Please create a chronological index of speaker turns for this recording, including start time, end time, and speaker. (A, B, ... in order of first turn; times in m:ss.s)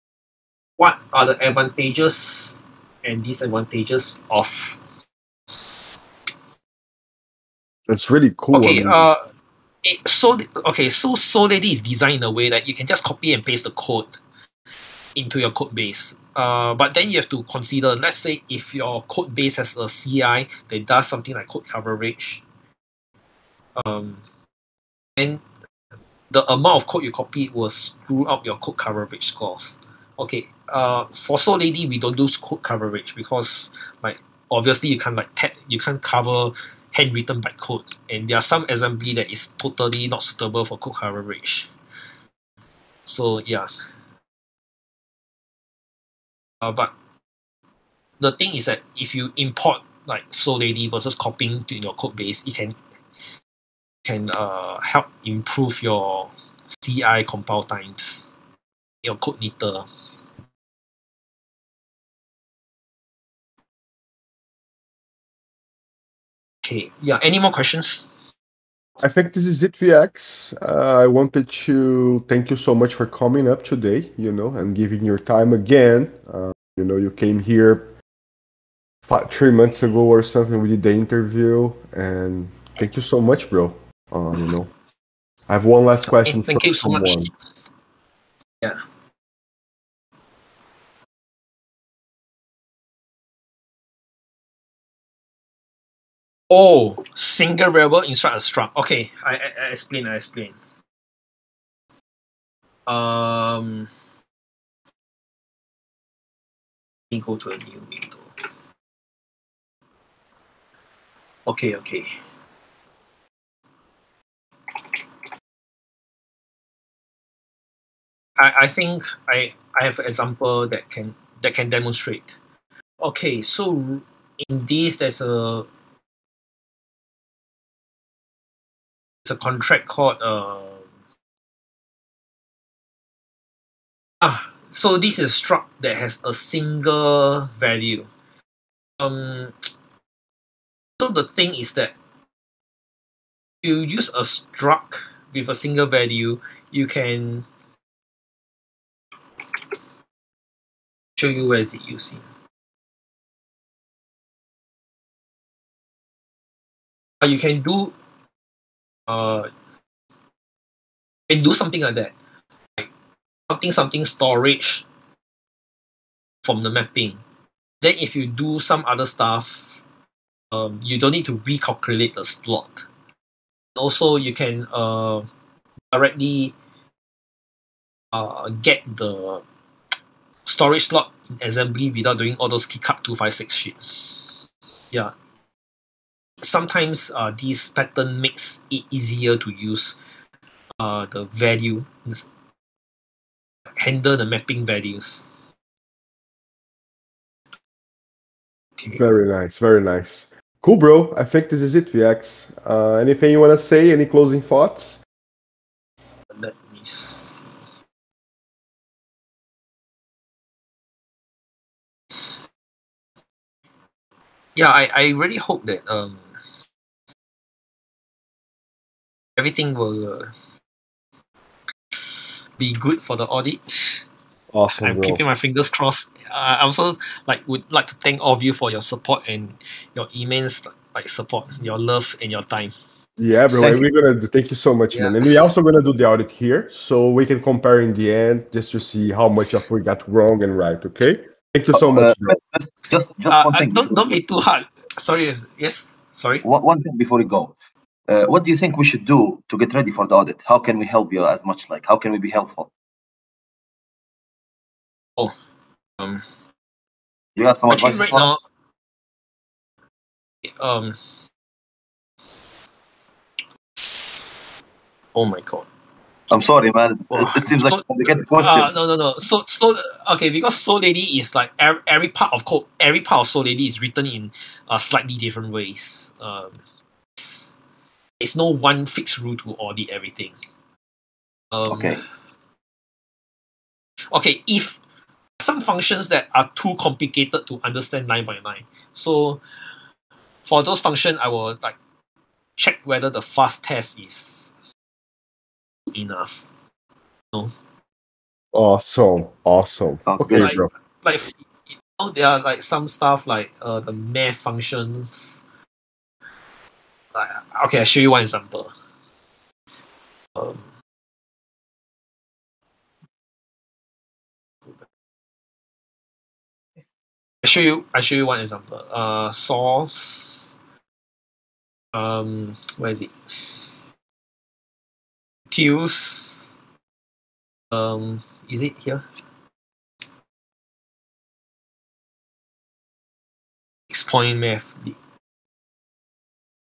0:00.8-0:04.8 A
0:07.9-0:09.1 B
0:08.5-0:09.2 A
0:09.8-0:14.2 A
0:15.2-0:22.4 A
0:23.8-0:24.2 A
0:25.2-0:25.4 A
0:26.3-0:41.7 A
0:43.1-0:43.7 A
0:46.6-0:46.9 A
0:48.2-0:52.8 A
0:54.0-0:58.3 A
0:59.0-0:59.9 A
1:06.6-1:08.1 A
1:09.0-1:17.9 B
1:19.1-1:24.7 B
1:25.5-1:27.3 B
1:26.1-1:27.3 A
1:36.5-1:40.6 A
1:42.9-1:43.9 A
1:47.1-1:48.3 A
1:51.5-1:52.1 A
1:58.4-2:02.4 A
2:03.0-2:05.7 A
2:09.2-2:10.8 A
2:14.2-2:18.1 A
2:19.0-2:19.6 A
2:21.0-2:22.0 A
2:23.6-2:27.4 A
2:31.2-2:32.2 A
2:37.2-2:37.9 A
2:39.1-2:39.5 A
2:41.3-2:42.1 A
2:43.5-2:44.8 A
2:46.4-2:47.2 A
2:47.8-2:49.8 A
2:50.5-2:52.9 A
2:53.8-2:55.2 A
2:55.9-2:56.6 A
2:58.1-2:59.4 A
3:00.4-3:04.3 A
3:06.4-3:10.0 A
3:10.8-3:12.3 A
3:13.8-3:15.2 A
3:18.8-3:19.1 A
3:18.9-3:25.0 B
3:26.3-3:27.4 A
3:34.6-3:36.2 A
3:39.4-3:40.3 A
3:42.6-3:44.0 A
3:44.5-3:45.2 B
3:44.8-3:52.7 A
3:53.2-4:02.4 B
3:54.9-3:55.2 A
4:01.7-4:04.2 C
4:03.3-4:06.4 A
4:06.4-4:07.5 C
4:08.1-4:12.7 C
4:16.0-4:16.2 A
4:17.4-4:18.3 C
4:17.7-4:18.4 A
4:20.6-4:21.0 A
4:25.1-4:25.7 A
4:26.3-4:28.7 C
4:27.1-4:36.6 A
4:37.2-4:37.5 A
4:38.2-4:40.3 A
4:41.5-4:42.0 A
4:41.7-4:42.0 C
4:44.1-4:44.8 A
4:45.4-4:49.4 A
4:50.4-4:51.8 A
4:52.6-4:54.5 A
4:55.9-4:56.4 A
4:58.5-5:00.7 B
5:00.0-5:00.5 C
5:00.3-5:05.4 A
5:07.1-5:08.7 A
5:10.4-5:10.6 A
5:17.4-5:20.6 A
5:21.9-5:23.6 A
5:25.5-5:26.4 A
5:27.7-5:29.0 A
5:33.9-5:35.0 A